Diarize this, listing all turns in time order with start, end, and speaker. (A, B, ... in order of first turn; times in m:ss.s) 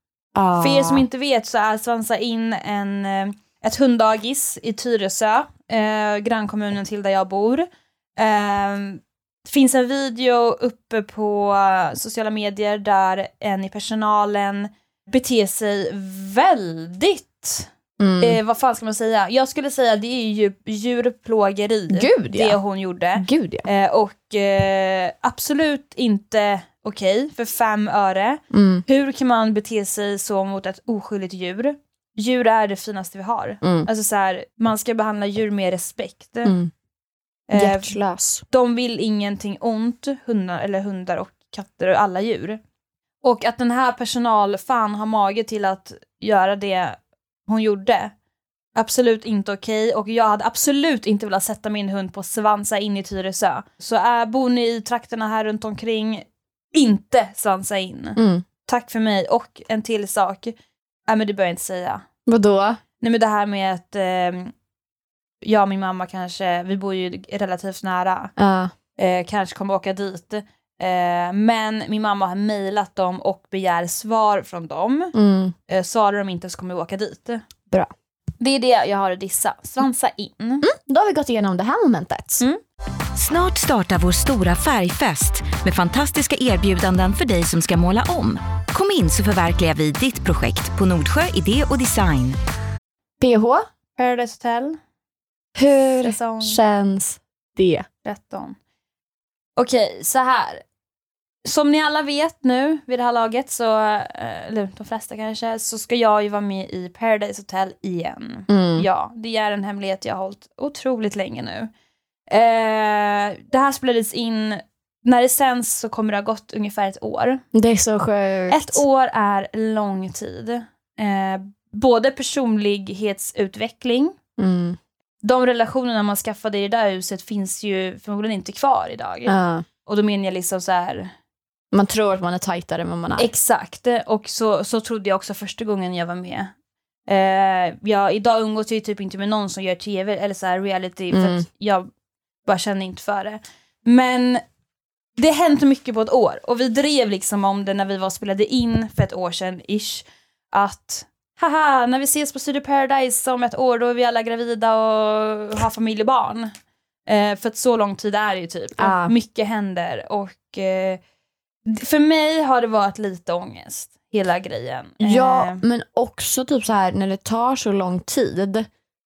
0:00.4-0:01.1 A
0:00.6-0:17.7 B
0:18.0-0:18.4 A
0:18.2-0:36.6 B
0:21.9-0:22.6 A
0:23.2-0:23.7 A
0:28.5-0:28.8 A
0:33.6-0:33.9 A
0:36.4-0:36.7 A
0:37.5-0:38.0 B
0:37.5-0:38.4 A
0:38.5-0:42.6 B
0:43.2-0:48.1 B
0:48.8-1:00.5 B
0:58.2-0:58.4 A
1:01.1-1:02.0 B
1:02.3-1:02.8 A
1:03.0-1:04.5 B
1:05.4-1:08.3 B
1:08.4-1:08.7 A
1:09.0-1:15.2 B
1:15.1-1:15.6 A
1:15.7-1:17.4 B
1:18.4-1:20.7 B
1:20.6-1:22.4 A
1:23.2-1:32.4 C
1:33.2-1:33.6 A
1:34.0-1:34.8 B
1:35.6-1:37.9 A
1:36.0-1:36.6 B
1:38.0-1:38.6 B
1:39.6-1:40.6 B
1:41.4-1:51.7 B
1:48.5-1:48.9 A
1:52.3-1:57.4 B
1:57.5-1:58.8 A
1:58.5-2:04.1 B
2:04.4-2:04.8 A
2:05.2-2:11.1 B
2:09.3-2:09.6 A
2:11.7-2:13.3 A
2:13.2-2:16.5 B
2:17.1-2:21.9 B
2:21.1-2:21.4 A
2:22.5-2:24.4 B
2:25.2-2:36.5 B
2:37.1-2:41.0 B
2:38.8-2:39.1 A
2:41.7-2:45.6 B
2:45.0-2:48.7 A